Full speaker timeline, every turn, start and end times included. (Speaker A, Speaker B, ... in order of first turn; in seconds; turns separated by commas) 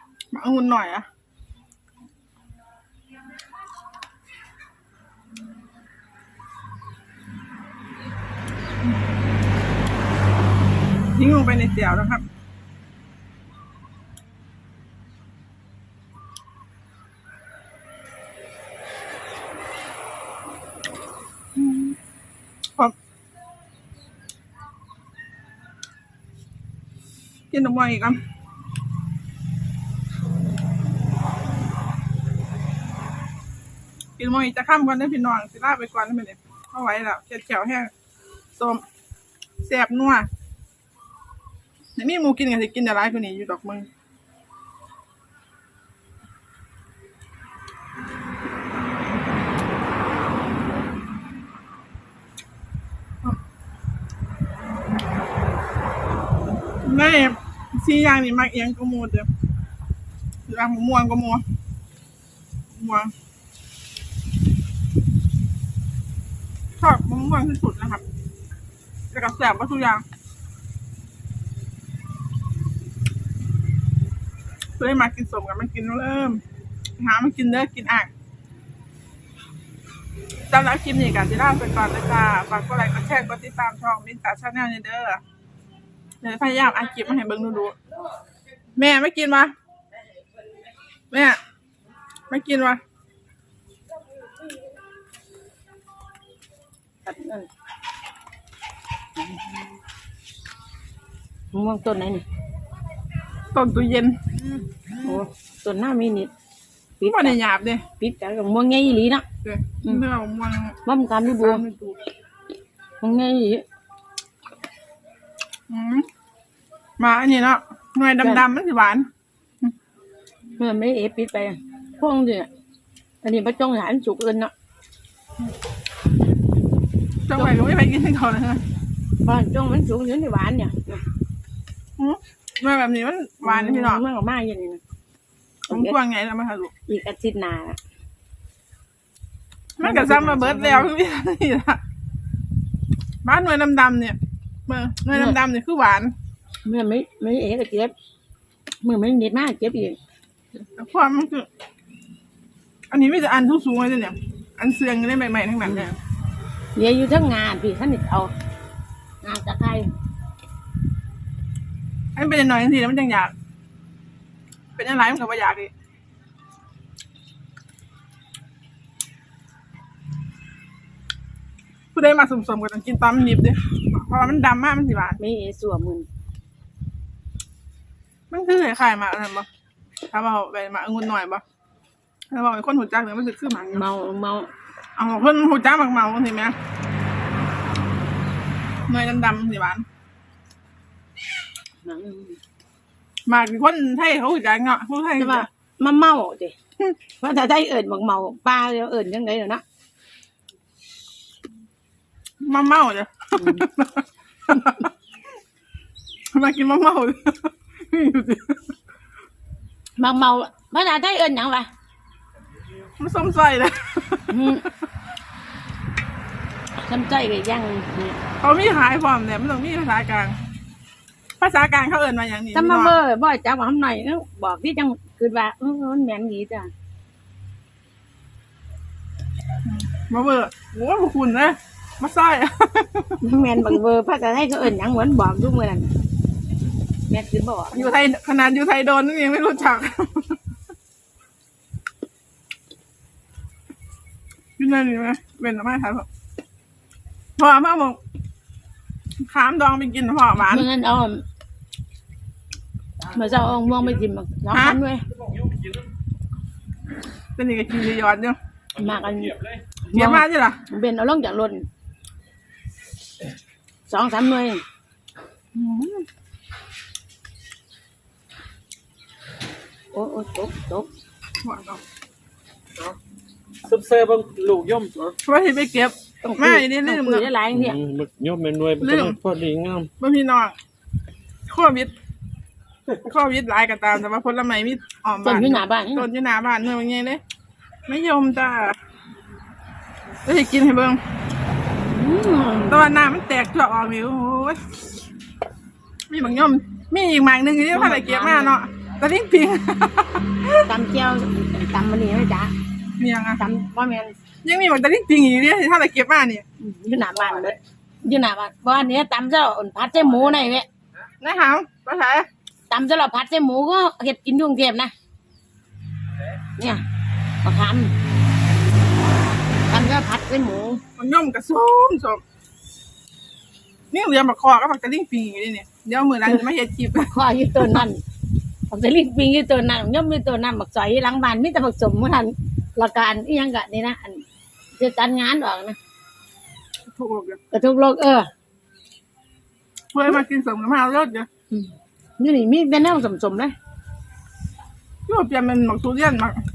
Speaker A: 0.3-1.1, Speaker A: 11.1-12.2, Speaker A: 21.6-21.9, Speaker A: 27.5-28.2, Speaker A: 34.2-37.9, Speaker A: 38.5-38.8, Speaker A: 39.6-40.3, Speaker A: 42.0-43.9, Speaker A: 56.8-59.3, Speaker A: 60.5-61.4, Speaker A: 62.7-63.1, Speaker A: 66.8-68.0, Speaker A: 69.1-70.0, Speaker A: 74.8-76.4, Speaker A: 77.0-78.1, Speaker A: 80.5-85.2, Speaker A: 86.2-87.7, Speaker A: 88.8-89.5, Speaker A: 91.1-91.4, Speaker A: 92.3-92.8, Speaker B: 97.0-97.5, Speaker B: 101.5-102.2, Speaker A: 103.5-104.2, Speaker B: 105.0-106.3, Speaker B: 107.0-107.4, Speaker A: 107.0-107.8, Speaker B: 108.0-109.2, Speaker A: 109.4-110.8, Speaker B: 110.8-111.6, Speaker A: 111.3-112.0, Speaker B: 113.0-113.6, Speaker A: 115.7-116.0, Speaker A: 117.0-119.1, Speaker B: 120.6-122.5, Speaker B: 123.2-124.5, Speaker A: 127.3-128.6, Speaker B: 129.2-131.0, Speaker A: 132.0-134.0, Speaker B: 133.4-134.8, Speaker B: 135.7-135.9, Speaker A: 135.7-136.7, Speaker B: 136.9-137.8, Speaker A: 139.8-141.8, Speaker B: 139.8-140.9, Speaker A: 143.2-146.1, Speaker B: 145.1-145.4, Speaker B: 146.6-147.9, Speaker B: 148.8-150.0, Speaker A: 150.7-151.5, Speaker A: 152.9-156.0, Speaker B: 156.7-158.3, Speaker B: 159.2-159.9, Speaker A: 162.2-163.3, Speaker A: 164.8-165.7, Speaker A: 171.9-175.2, Speaker B: 175.2-176.1, Speaker A: 178.3-179.5, Speaker A: 180.1-181.4, Speaker A: 182.3-183.8, Speaker B: 183.7-184.5, Speaker A: 184.9-186.5, Speaker A: 188.9-189.8, Speaker B: 191.8-192.4, Speaker A: 193.3-195.5, Speaker B: 195.2-196.5, Speaker B: 197.2-199.6, Speaker A: 202.4-204.9, Speaker B: 203.4-203.7, Speaker A: 206.3-208.7, Speaker B: 210.0-211.7, Speaker A: 213.0-214.3, Speaker B: 214.3-214.6, Speaker B: 216.8-218.2, Speaker A: 218.4-220.4, Speaker A: 221.4-222.9, Speaker B: 222.5-226.7, Speaker A: 229.6-233.7, Speaker B: 233.2-235.9, Speaker B: 237.1-237.9, Speaker A: 237.7-240.4, Speaker A: 244.6-246.1, Speaker A: 247.4-248.0, Speaker A: 249.3-250.7, Speaker B: 250.4-251.2, Speaker B: 253.1-255.1, Speaker C: 253.1-253.9, Speaker A: 254.5-254.8, Speaker C: 255.2-255.9, Speaker A: 257.4-258.4, Speaker C: 258.8-259.6, Speaker B: 258.8-261.7, Speaker A: 259.9-260.6, Speaker B: 263.9-264.6, Speaker A: 265.5-266.1, Speaker B: 269.9-270.9, Speaker A: 271.4-271.8, Speaker C: 273.6-275.1, Speaker A: 275.2-277.3, Speaker B: 276.2-277.8, Speaker C: 277.5-279.9, Speaker A: 278.8-279.2, Speaker A: 280.0-280.6, Speaker A: 281.5-281.9, Speaker A: 283.0-287.2, Speaker B: 285.2-286.1, Speaker A: 287.9-288.8, Speaker A: 290.2-291.0, Speaker B: 291.9-292.8, Speaker A: 292.7-294.6, Speaker A: 296.1-300.7, Speaker B: 297.7-298.5, Speaker B: 300.7-302.5, Speaker A: 303.0-303.4, Speaker B: 303.4-304.1, Speaker A: 304.4-306.4, Speaker B: 306.6-310.7, Speaker A: 311.2-312.3, Speaker B: 312.7-314.9, Speaker B: 316.6-316.8, Speaker B: 317.4-317.9, Speaker B: 319.7-320.8, Speaker A: 321.0-322.2, Speaker A: 323.9-327.8, Speaker B: 327.1-328.0, Speaker B: 328.7-334.2, Speaker B: 334.8-335.8, Speaker A: 336.9-337.4, Speaker B: 337.5-338.3, Speaker A: 339.9-341.3, Speaker B: 341.5-343.5, Speaker A: 345.1-346.4